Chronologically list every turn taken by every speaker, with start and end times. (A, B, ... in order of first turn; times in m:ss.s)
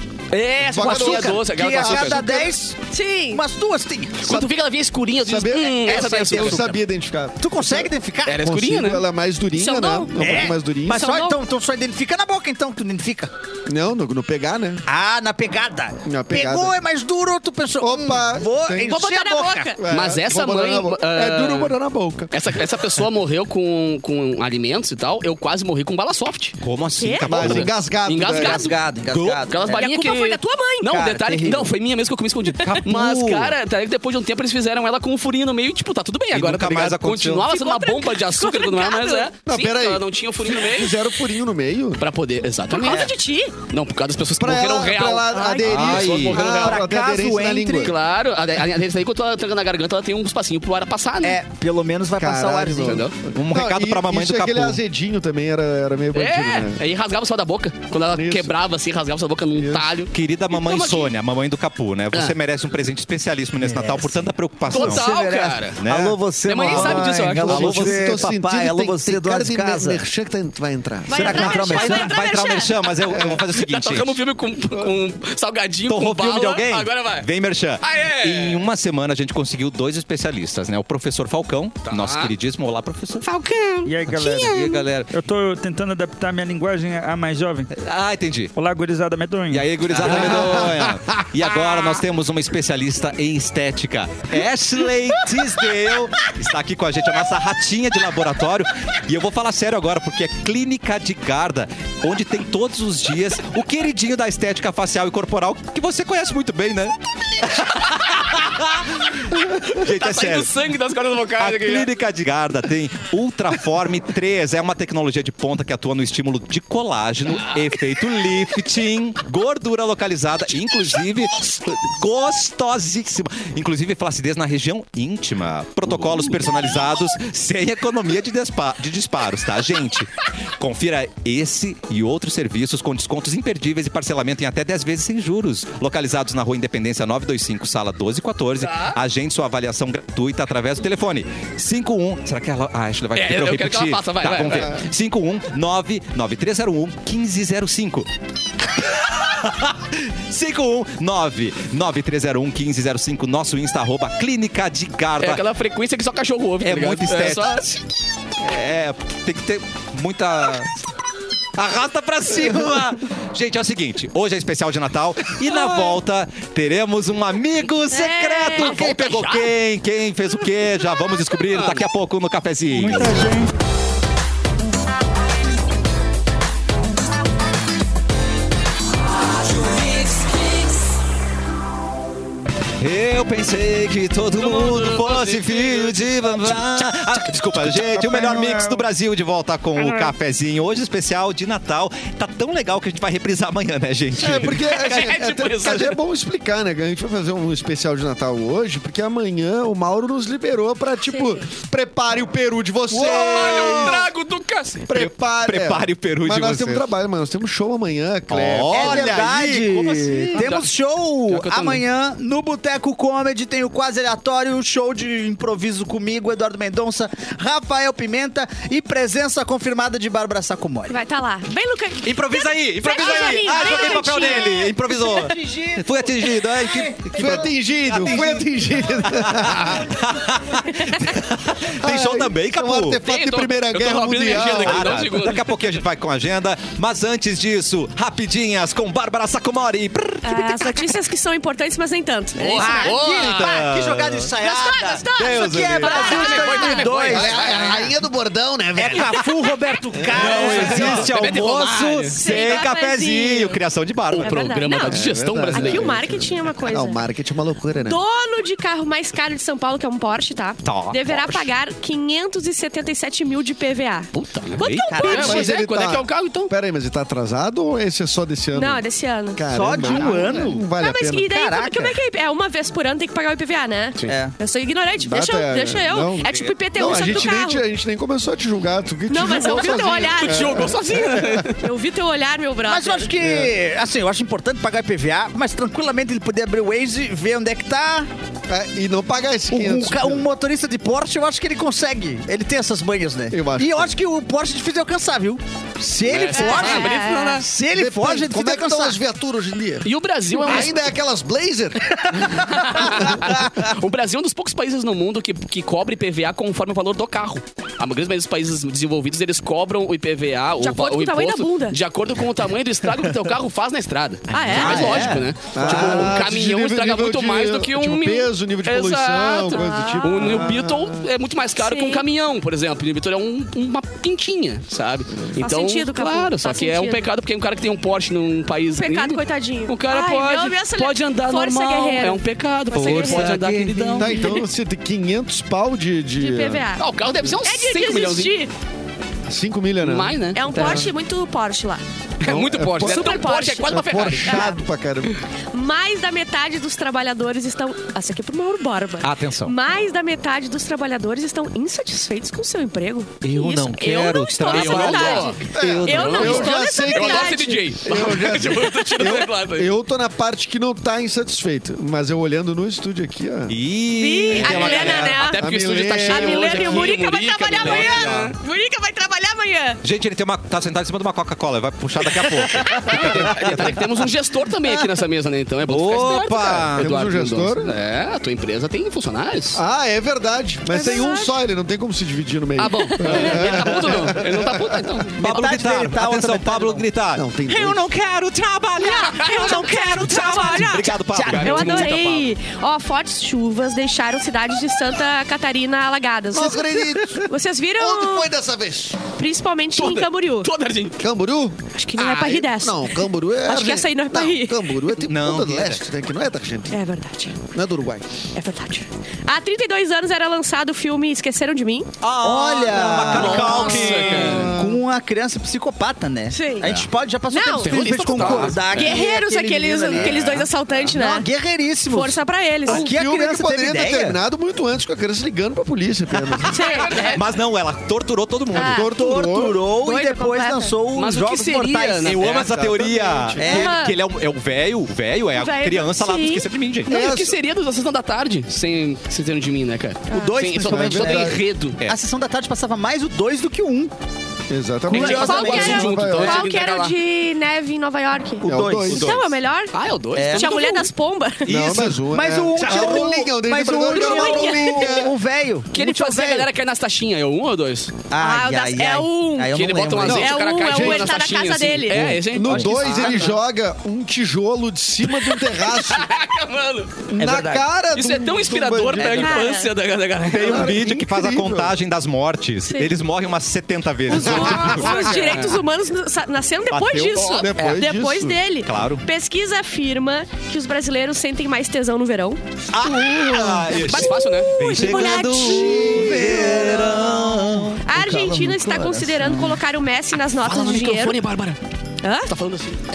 0:00.3-0:02.2 A
0:00.6-0:02.5 B
0:00.8-0:02.8 C
0:02.9-0:03.4 D
0:03.3-0:04.4 C
0:04.2-0:06.8 A
0:05.2-0:07.9 B
0:05.8-0:06.8 C
0:07.4-0:08.4 C
0:08.2-0:09.0 A
0:08.4-0:11.1 B
0:09.5-0:10.1 D
0:10.2-0:13.3 C
0:10.9-0:11.4 D
0:13.7-0:14.8 B
0:14.9-0:19.7 C
0:16.0-0:16.8 B
0:17.8-0:19.0 B
0:18.9-0:19.8 D
0:19.8-0:22.3 B
0:19.9-0:21.8 A
0:22.3-0:26.6 A
0:26.6-0:27.7 E
0:27.0-0:27.3 D
0:27.3-0:28.7 B
0:27.3-0:41.0 A
0:28.2-0:29.8 C
0:29.1-0:29.4 E
0:29.7-0:31.0 D
0:30.9-0:31.7 C
0:32.5-0:33.6 E
0:36.3-0:37.5 E
0:37.5-0:39.3 D
0:39.4-0:42.0 B
0:42.0-0:43.0 A
0:42.7-0:43.5 D
0:42.8-0:43.1 C
0:43.7-0:46.8 A
0:44.4-0:47.9 B
0:45.3-0:45.7 D
0:45.7-0:46.4 E
0:46.4-0:47.9 C
0:47.8-0:51.4 A
0:51.2-0:53.0 C
0:52.2-0:56.8 B
0:52.8-0:53.1 A
0:53.3-0:54.8 E
0:56.1-1:01.1 A
0:58.1-0:58.5 B
0:59.5-1:00.0 B
1:00.1-1:05.1 E
1:03.6-1:10.0 C
1:04.7-1:05.8 A
1:05.8-1:06.2 E
1:06.4-1:07.8 A
1:06.6-1:11.7 B
1:07.4-1:08.4 E
1:11.0-1:12.8 D
1:11.1-1:12.2 C
1:11.2-1:14.2 E
1:13.0-1:17.3 A
1:13.1-1:13.4 B
1:15.9-1:23.2 E
1:17.8-1:18.7 A
1:21.8-1:22.3 A
1:23.2-1:24.8 A
1:23.8-1:27.7 F
1:24.1-1:25.1 E
1:27.7-1:28.5 E
1:28.6-1:29.8 F
1:29.5-1:50.5 E
1:29.9-1:30.4 A
1:30.0-1:31.0 B
1:49.8-1:51.9 A
1:51.4-2:28.1 E
2:18.6-2:19.0 A
2:23.1-2:24.8 A
2:28.8-2:35.4 E
2:35.2-2:37.7 A
2:36.6-2:37.8 E
2:38.4-2:40.8 E
2:41.6-2:53.2 E
2:47.9-2:48.8 D
2:48.6-2:49.5 A
2:51.5-2:51.8 A
2:52.7-2:53.5 F
3:02.8-3:15.8 E
3:04.4-3:06.5 A
3:08.1-3:08.8 F
3:09.8-3:10.1 F
3:14.2-3:24.1 B
3:14.3-3:16.0 A
3:21.1-3:21.3 D
3:22.9-3:24.0 E
3:22.9-3:24.9 A
3:24.9-3:30.4 B
3:24.9-3:26.9 E
3:28.3-3:30.1 E
3:28.7-3:41.0 C
3:30.3-3:30.7 A
3:31.2-3:31.8 A
3:40.9-3:44.8 D
3:42.0-3:48.5 E
3:45.0-3:47.5 C
3:47.1-3:49.9 B
3:49.0-3:53.0 E
3:50.7-3:51.0 D
3:51.8-3:55.0 B
3:53.0-3:55.5 A
3:54.3-4:00.9 E
4:00.2-4:02.9 D
4:02.4-4:03.5 A
4:02.5-4:07.6 C
4:03.1-4:04.3 E
4:04.4-4:06.9 D
4:05.1-4:06.4 E
4:05.8-4:07.9 A
4:07.0-4:09.3 B
4:08.7-4:11.2 C
4:09.9-4:11.0 B
4:10.1-4:14.6 E
4:10.1-4:12.2 A
4:12.1-4:13.6 D
4:14.1-4:16.0 A
4:14.2-4:17.0 D
4:14.9-4:18.0 B
4:17.8-4:25.5 D
4:20.6-4:21.5 E
4:24.1-4:26.5 A
4:24.6-4:24.9 E
4:24.9-4:25.4 C
4:25.0-4:28.8 B
4:28.5-4:37.6 D
4:29.4-4:31.3 B
4:29.5-4:30.7 C
4:31.3-4:32.0 C
4:34.0-4:34.3 C
4:35.0-4:41.4 B
4:36.4-4:37.2 E
4:39.1-4:43.1 D
4:40.1-4:41.6 A
4:42.7-4:48.1 C
4:43.2-4:43.5 B
4:48.5-4:50.3 B
4:49.5-4:59.0 C
4:53.3-4:53.9 B
4:56.0-4:57.5 A
4:56.2-4:56.7 B
4:56.3-4:57.4 D
4:57.6-5:03.2 B
4:59.8-5:00.8 A
5:02.5-5:34.4 A
5:10.6-5:11.8 D
5:14.3-5:15.1 D
5:14.5-5:16.1 C
5:14.7-5:21.0 B
5:19.5-5:20.5 D
5:21.6-5:22.0 D
5:25.4-5:27.1 D
5:28.7-5:33.3 D
5:32.7-5:34.2 E
5:34.0-5:36.6 B
5:36.2-5:36.8 D
5:36.8-5:38.3 A
5:37.4-5:38.5 D
5:39.3-5:40.9 B
5:39.8-5:40.9 A
5:40.3-5:41.8 D
5:42.2-5:44.6 A
5:42.2-5:45.2 B
5:42.8-5:44.6 D
5:45.5-5:57.6 D
5:49.0-5:49.5 E
5:53.2-5:56.5 E
5:54.5-5:59.7 A
5:55.5-6:03.6 B
6:03.5-6:05.3 E
6:03.9-6:05.5 D
6:04.3-6:08.4 A
6:05.4-6:06.9 B
6:06.1-6:09.8 D
6:07.6-6:08.3 B
6:07.8-6:08.3 E
6:09.8-6:13.9 E
6:12.6-6:13.0 D
6:12.7-6:19.6 A
6:13.0-6:13.6 B
6:15.7-6:16.9 E
6:16.8-6:17.7 B
6:19.5-6:25.0 B
6:20.7-6:21.4 D
6:22.6-6:25.2 A
6:25.2-6:31.9 E
6:25.2-6:26.8 C
6:27.1-6:27.9 B
6:28.8-6:38.3 D
6:31.0-6:31.8 C
6:31.2-6:32.3 A
6:36.3-6:39.0 B
6:39.2-6:40.5 D
6:39.7-6:41.0 A
6:41.0-6:46.8 B
6:41.7-6:44.6 D
6:45.0-6:45.8 E
6:46.7-6:47.4 D
6:47.4-6:48.1 B
6:48.3-6:51.9 D
6:52.0-6:54.5 E
6:52.2-7:04.2 C
6:53.1-6:54.5 A
6:53.4-6:54.8 B
6:56.3-6:56.7 D
6:57.3-6:57.8 D
6:57.6-6:58.7 A
6:58.0-6:58.9 E
6:58.7-7:01.2 D
7:00.0-7:00.4 E
7:01.9-7:02.9 D
7:02.7-7:06.6 B
7:06.4-7:07.1 D
7:06.5-7:07.2 A
7:07.0-7:08.8 E
7:08.5-7:08.9 D
7:08.6-7:09.6 B
7:08.7-7:12.2 C
7:09.8-7:10.7 D
7:10.9-7:12.6 A
7:12.0-7:16.9 E
7:12.2-7:13.7 B
7:13.4-7:13.8 C
7:13.5-7:14.0 D
7:15.4-7:16.4 D
7:16.9-7:17.3 B
7:16.9-7:21.8 A
7:20.1-7:20.4 D
7:20.1-7:23.9 C
7:20.5-7:21.4 B
7:24.5-7:26.5 B
7:24.9-7:27.0 A
7:24.9-7:25.9 C
7:24.9-7:29.7 D
7:28.4-7:29.1 C
7:28.4-7:29.2 B
7:28.9-7:29.3 E
7:29.7-7:30.9 A
7:30.1-7:30.5 C
7:30.3-7:31.8 D
7:31.4-7:35.1 B
7:31.5-7:36.5 C
7:32.6-7:33.0 D
7:33.8-7:35.0 D
7:35.7-7:37.9 A
7:38.1-7:40.3 C
7:38.2-7:42.1 D
7:39.5-7:43.3 A
7:40.0-7:41.2 B
7:41.9-7:46.1 B
7:42.4-7:43.3 C
7:43.0-7:43.3 D
7:45.1-7:47.1 A
7:47.1-7:49.5 B
7:47.2-7:47.7 C
7:47.9-7:50.7 A
7:49.0-7:49.7 D
7:50.3-7:55.6 E
7:50.4-7:51.7 B
7:54.1-8:02.4 D
7:54.2-7:55.4 B
7:54.7-7:55.1 A
7:56.7-7:57.6 E
7:57.3-7:58.4 B
7:58.6-7:59.0 E
8:02.7-8:07.8 E
8:03.0-8:03.8 B
8:03.7-8:04.5 A
8:04.2-8:05.8 D
8:05.0-8:07.0 B
8:05.3-8:09.6 C
8:07.8-8:11.2 D
8:10.4-8:11.6 A
8:12.0-8:12.3 D
8:12.2-8:12.8 A